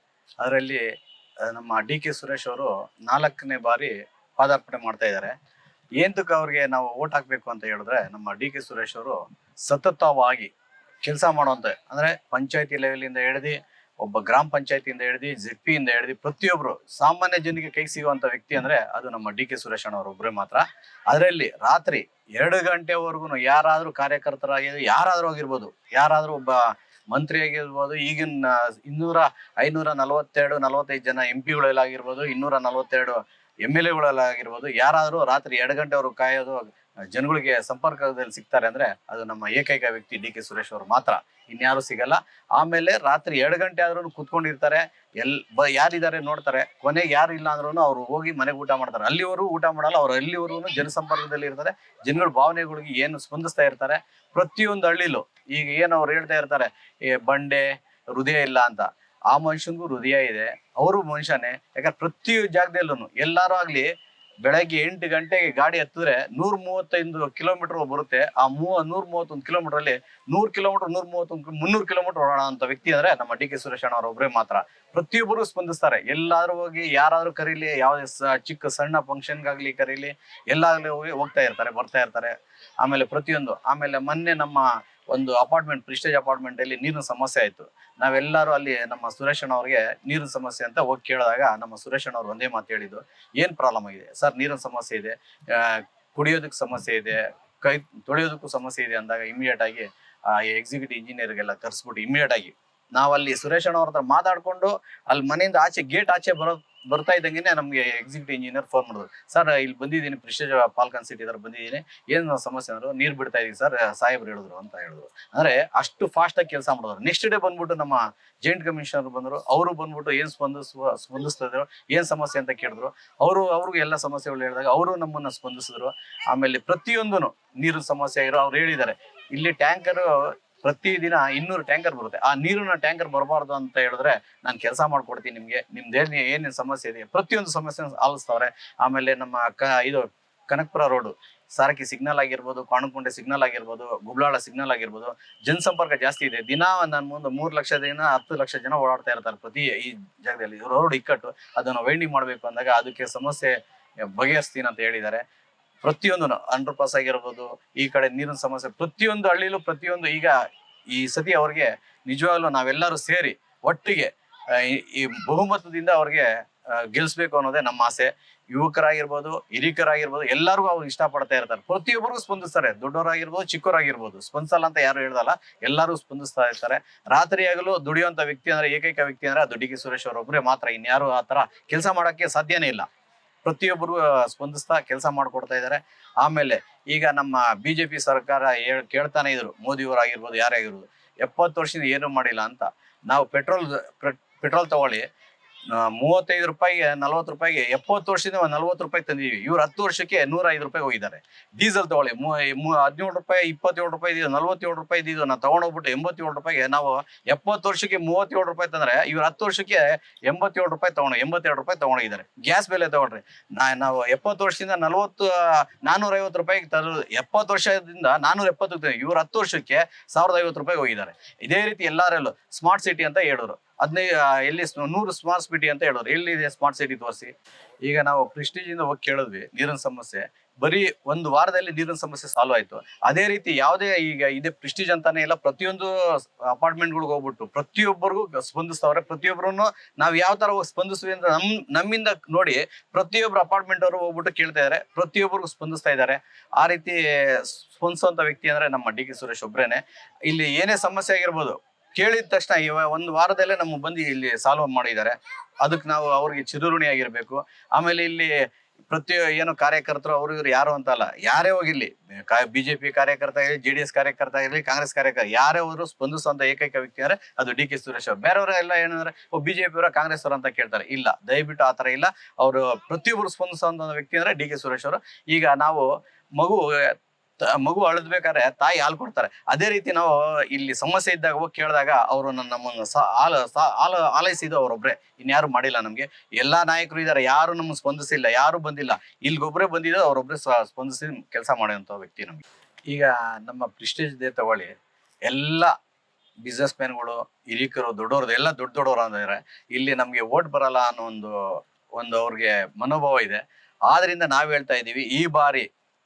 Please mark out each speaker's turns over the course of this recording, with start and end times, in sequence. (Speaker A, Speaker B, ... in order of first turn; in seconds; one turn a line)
Speaker A: 0.4-0.8
Speaker A: 1.4-5.3
Speaker A: 6.0-10.5
Speaker A: 11.0-63.9
Speaker A: 64.4-153.6
Speaker A: 154.1-155.2
Speaker A: 155.8-160.4
Speaker A: 160.9-182.9
Speaker A: 183.4-195.1
Speaker A: 195.7-227.3
Speaker A: 227.8-294.8
Speaker A: 295.3-295.7
Speaker A: 296.4-305.7